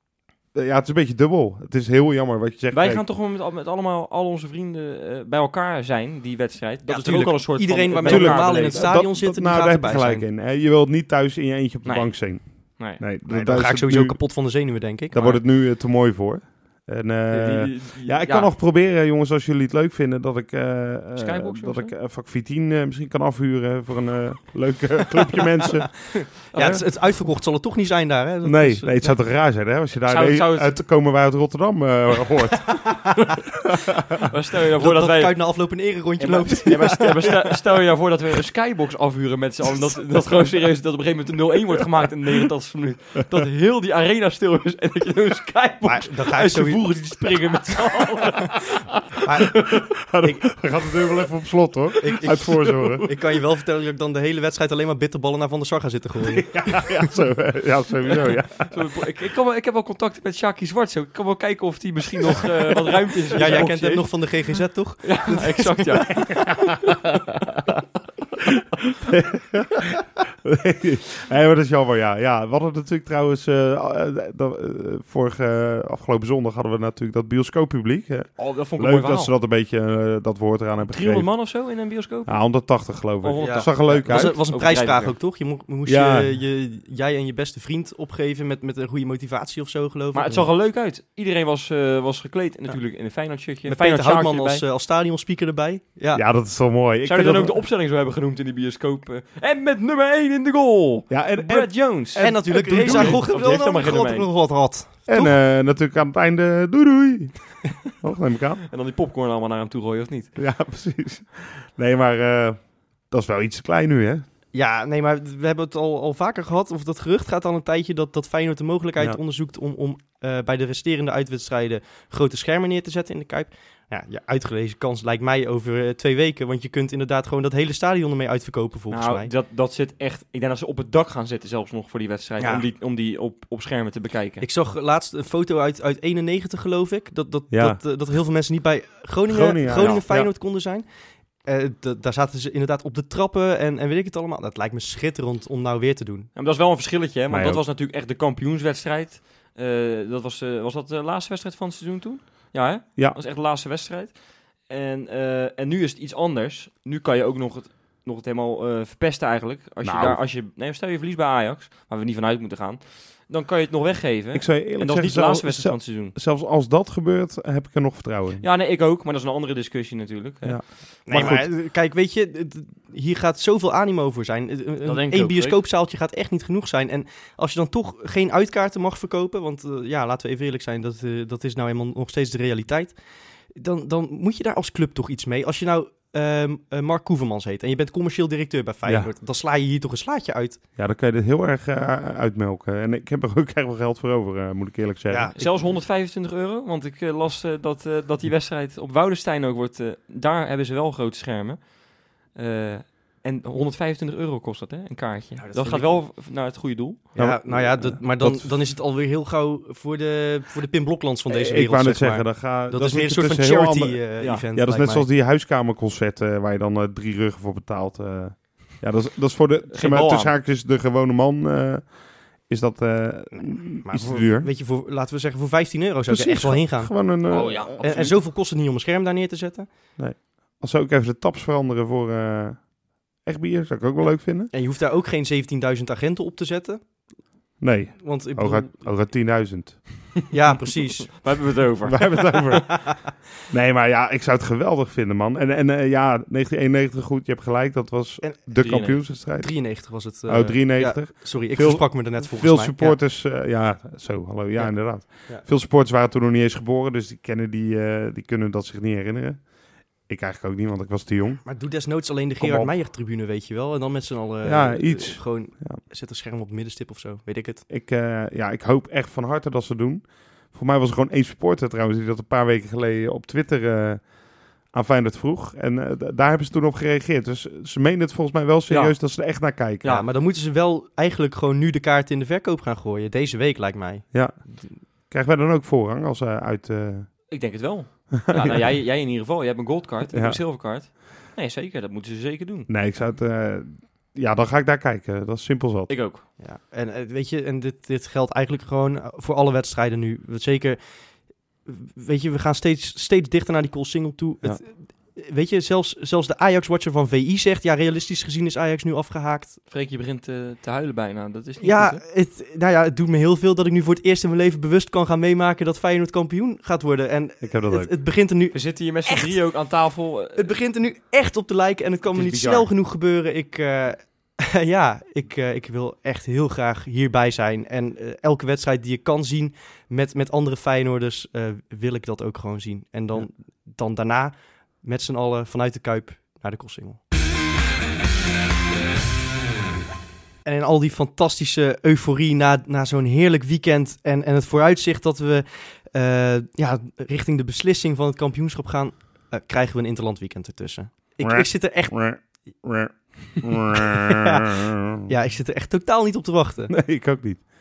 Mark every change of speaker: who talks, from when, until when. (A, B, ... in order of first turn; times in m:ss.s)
0:00.5-0:03.0 A
0:02.7-0:08.9 B
0:06.8-0:10.2 C
0:08.0-0:14.2 A
0:11.8-0:13.0 B
0:13.3-0:15.3 C
0:15.1-0:26.8 A
0:17.3-0:18.5 B
0:21.2-0:21.9 B
0:26.5-0:29.1 C
0:26.5-0:26.8 B
0:28.4-0:34.2 A
0:30.0-0:30.7 B
0:34.2-0:35.5 B
0:34.8-0:37.5 C
0:36.2-0:49.9 B
0:45.8-0:46.9 C
0:49.2-0:49.6 C
0:49.7-0:53.0 A
0:50.2-0:50.5 C
0:52.0-0:57.0 C
0:56.2-0:58.8 A
0:58.7-1:04.3 B
1:03.4-1:06.2 C
1:03.4-1:03.6 A
1:05.0-1:07.1 B
1:06.2-1:07.0 A
1:08.9-1:21.3 A
1:18.4-1:19.3 B
1:20.8-1:22.5 B
1:22.3-1:24.4 A
1:23.2-1:25.2 B
1:23.4-1:30.4 C
1:25.8-1:26.3 A
1:30.1-1:34.6 B
1:33.6-1:36.2 C
1:36.1-1:37.6 A
1:37.0-1:44.3 B
1:41.1-1:43.2 A
1:42.2-1:45.4 C
1:45.1-1:47.3 A
1:48.0-1:48.6 A
1:48.7-1:50.3 B
1:50.4-1:54.2 A
1:54.5-2:09.3 C
2:08.9-2:14.4 B
2:12.4-2:12.6 C
2:14.4-2:20.8 C
2:17.5-2:17.8 A
2:19.3-2:20.3 A
2:19.8-2:20.0 B
2:21.4-2:26.3 C
2:26.3-2:46.2 B
2:27.3-2:27.6 A
2:39.8-2:40.2 A
2:44.3-2:48.4 A
2:48.4-2:50.8 B
2:50.4-2:51.5 A
2:51.0-3:02.9 C
2:54.8-2:55.6 B
3:03.5-3:10.6 C
3:10.8-3:15.3 A
3:15.1-3:15.5 C
3:15.3-3:21.7 B
3:22.3-3:27.1 B
3:25.4-3:26.0 C
3:27.2-3:28.5 A
3:27.2-3:35.1 C
3:31.3-3:41.9 A
3:39.7-3:40.3 B
3:42.5-3:44.5 A
3:43.8-3:46.9 C
3:46.1-3:48.1 A
3:47.3-3:48.1 B
3:47.8-3:49.7 C
3:50.0-3:52.7 A
3:53.2-3:54.5 A
3:54.5-3:56.8 C
3:57.6-4:00.1 A
3:58.0-3:58.7 C
4:00.3-4:01.1 C
4:01.0-4:02.5 B
4:01.8-4:19.5 A
4:02.6-4:03.1 C
4:08.6-4:09.0 B
4:09.4-4:13.0 C
4:14.6-4:15.4 C
4:20.0-4:21.4 A
4:21.4-4:27.6 C
4:22.4-4:22.7 A
4:24.4-4:25.8 A
4:27.7-4:34.1 A
4:34.7-4:39.9 A
4:38.7-4:39.0 B
4:39.8-4:44.6 C
4:44.1-4:44.4 A
4:45.1-4:47.1 A
4:47.3-4:52.7 B
4:48.2-4:48.6 A
4:50.1-4:50.4 A
4:52.7-4:55.9 A
4:55.9-4:56.2 B
4:56.4-5:00.8 C
5:01.7-5:09.6 C
5:09.7-5:12.0 B
5:11.6-5:19.4 C
5:17.4-5:17.9 A
5:18.5-5:20.5 B
5:20.4-5:37.0 C
5:22.1-5:22.7 B
5:40.4-5:52.0 C
5:51.2-5:55.1 A
5:54.0-5:54.5 C
5:55.0-5:56.7 C
5:56.7-5:57.4 A